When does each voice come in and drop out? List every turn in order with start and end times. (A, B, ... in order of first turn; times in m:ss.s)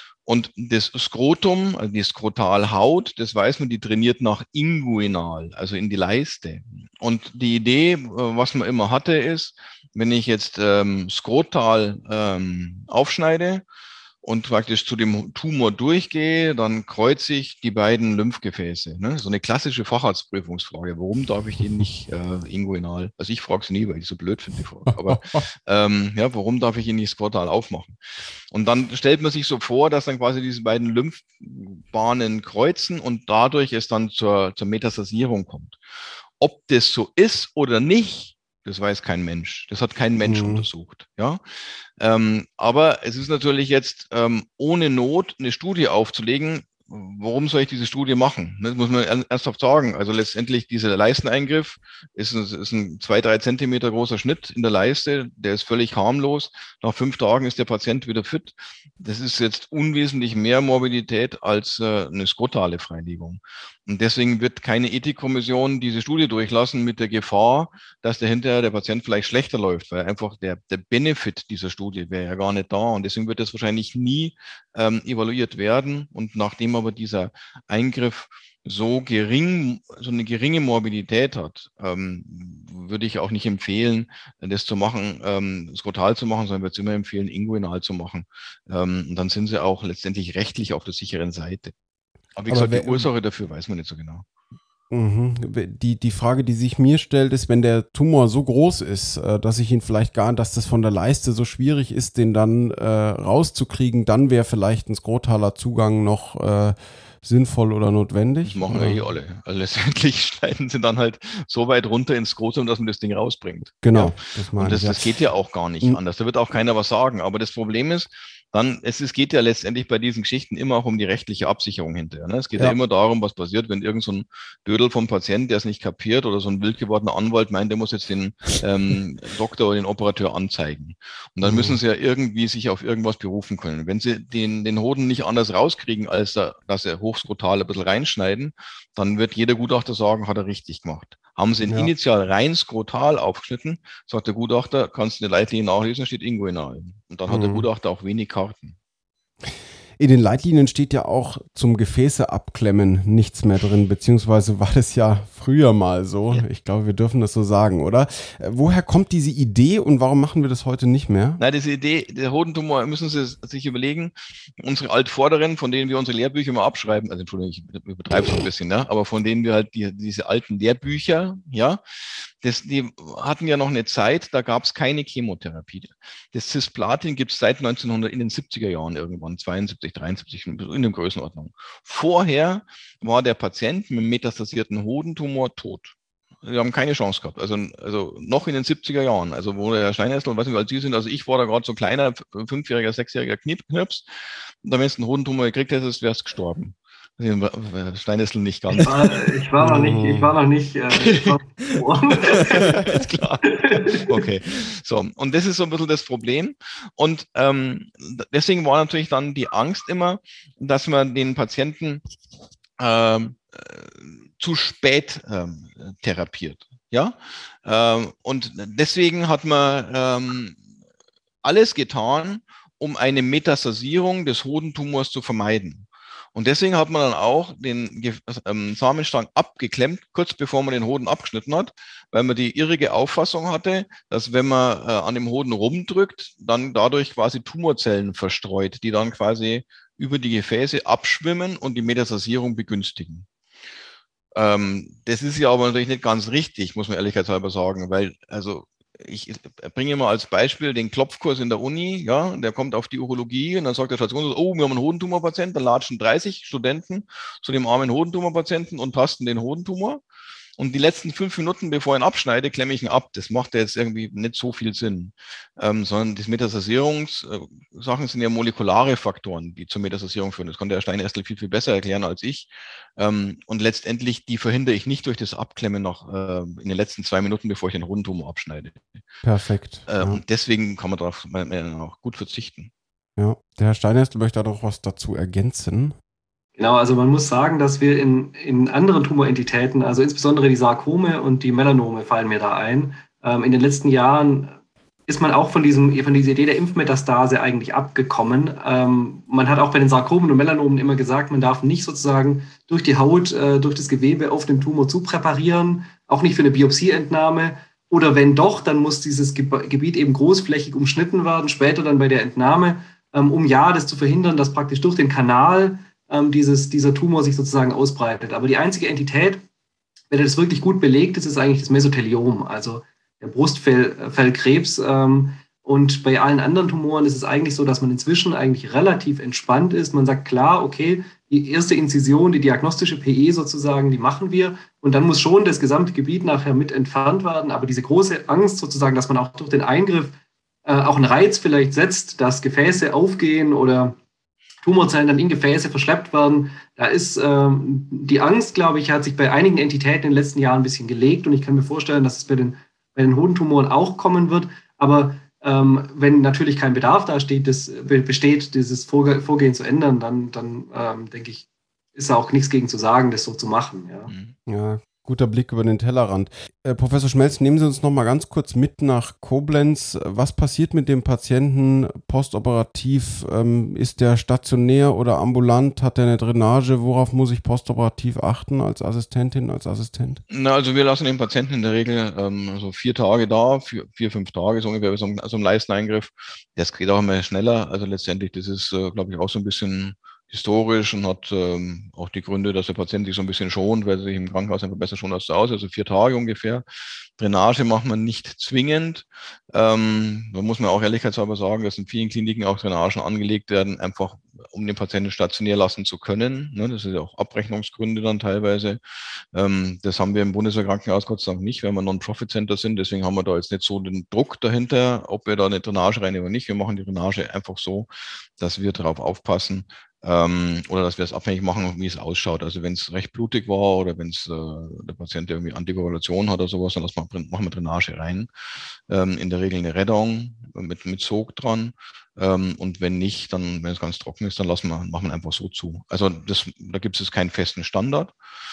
0:00.3-0:13.6 A
0:14.2-0:28.0 A
0:28.5-0:35.8 A
0:36.4-0:41.4 A
0:40.2-0:40.7 B
0:42.0-1:31.7 A
1:32.4-1:34.2 A
1:32.5-1:33.1 B
1:34.9-1:49.1 B
1:48.4-2:28.8 A
1:53.8-1:55.1 B
2:11.4-2:11.8 B
2:27.3-2:27.7 B
2:30.0-2:41.4 B
2:41.4-3:14.1 A
3:14.6-3:19.2 A
3:18.8-3:22.8 C
3:19.6-3:20.4 B
3:20.9-3:32.0 A
3:23.5-3:24.0 C
3:32.8-3:40.6 A
3:41.4-4:03.3 A
4:04.4-4:20.0 A
4:20.6-4:39.0 A
4:39.2-4:40.2 B
4:39.9-4:42.7 A
4:43.2-4:46.0 B
4:46.6-4:54.6 C
4:55.1-5:19.4 C
5:20.1-5:40.2 C
5:40.7-5:44.0 C
5:44.6-6:04.1 C
6:04.1-6:04.3 A
6:04.5-6:20.2 B
6:20.3-6:36.6 A
6:37.2-6:48.8 A
6:49.3-7:08.3 A
7:08.9-7:18.1 A